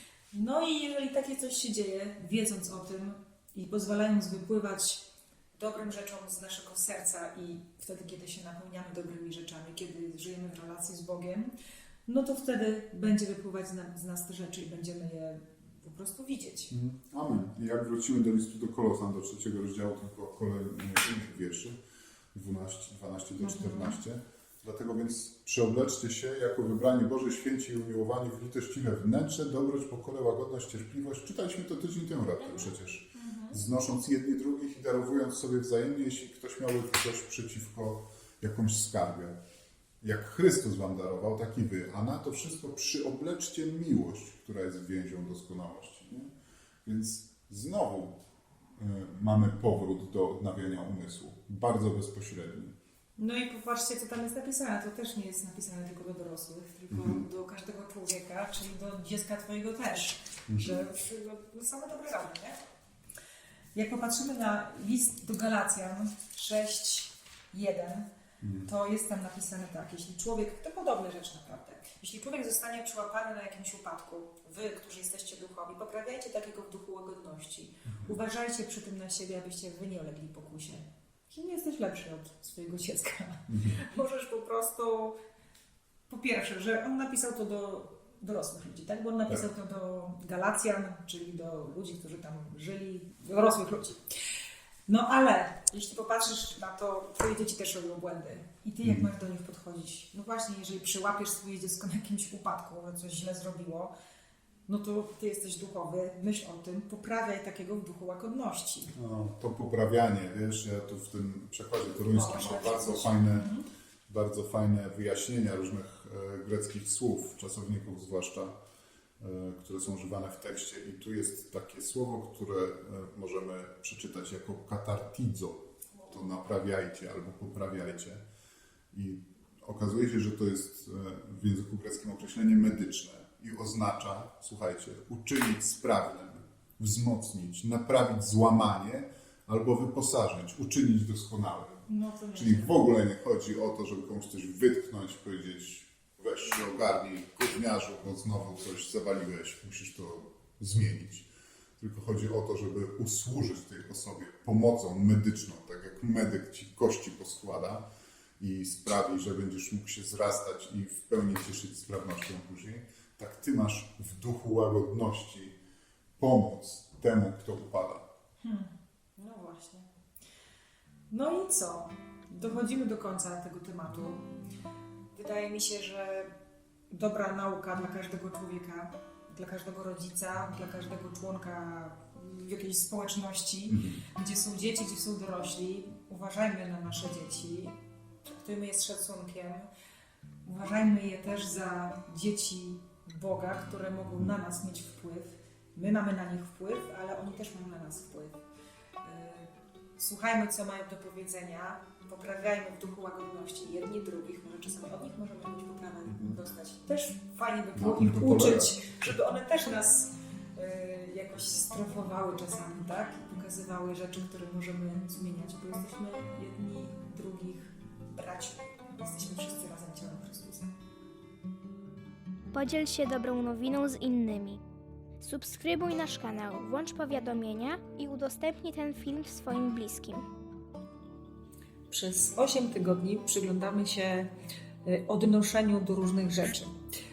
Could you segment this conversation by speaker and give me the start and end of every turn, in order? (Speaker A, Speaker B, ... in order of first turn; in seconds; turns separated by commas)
Speaker A: 0.3-5.0, Speaker A: 5.5-11.5, Speaker A: 12.1-16.7, Speaker B: 16.7-21.8, Speaker B: 22.3-39.4, Speaker A: 23.4-24.0, Speaker A: 32.6-33.6, Speaker B: 40.0-46.3, Speaker B: 46.8-48.2, Speaker B: 48.8-52.8, Speaker A: 53.2-62.6, Speaker B: 56.9-57.2, Speaker B: 60.5-60.8, Speaker A: 63.8-68.1, Speaker B: 68.4-68.7, Speaker A: 68.6-85.2, Speaker B: 77.9-78.1, Speaker B: 83.5-83.8, Speaker A: 86.1-94.0, Speaker A: 94.9-103.9, Speaker A: 104.7-108.9, Speaker B: 108.9-113.5, Speaker A: 111.9-113.7, Speaker B: 114.1-118.5, Speaker B: 119.2-128.2, Speaker B: 128.9-141.8, Speaker A: 141.9-142.8, Speaker B: 142.3-151.3, Speaker B: 151.8-157.8, Speaker B: 158.4-165.6, Speaker B: 166.2-168.0, Speaker A: 168.4-169.9, Speaker A: 171.1-174.3, Speaker A: 175.1-176.3, Speaker A: 176.9-187.8, Speaker B: 183.7-184.0, Speaker A: 188.3-189.7, Speaker A: 190.4-198.4, Speaker A: 199.0-220.7, Speaker B: 206.1-206.4, Speaker B: 207.7-208.8, Speaker C: 222.5-224.6, Speaker C: 225.2-230.2, Speaker A: 231.9-234.3, Speaker A: 234.8-236.7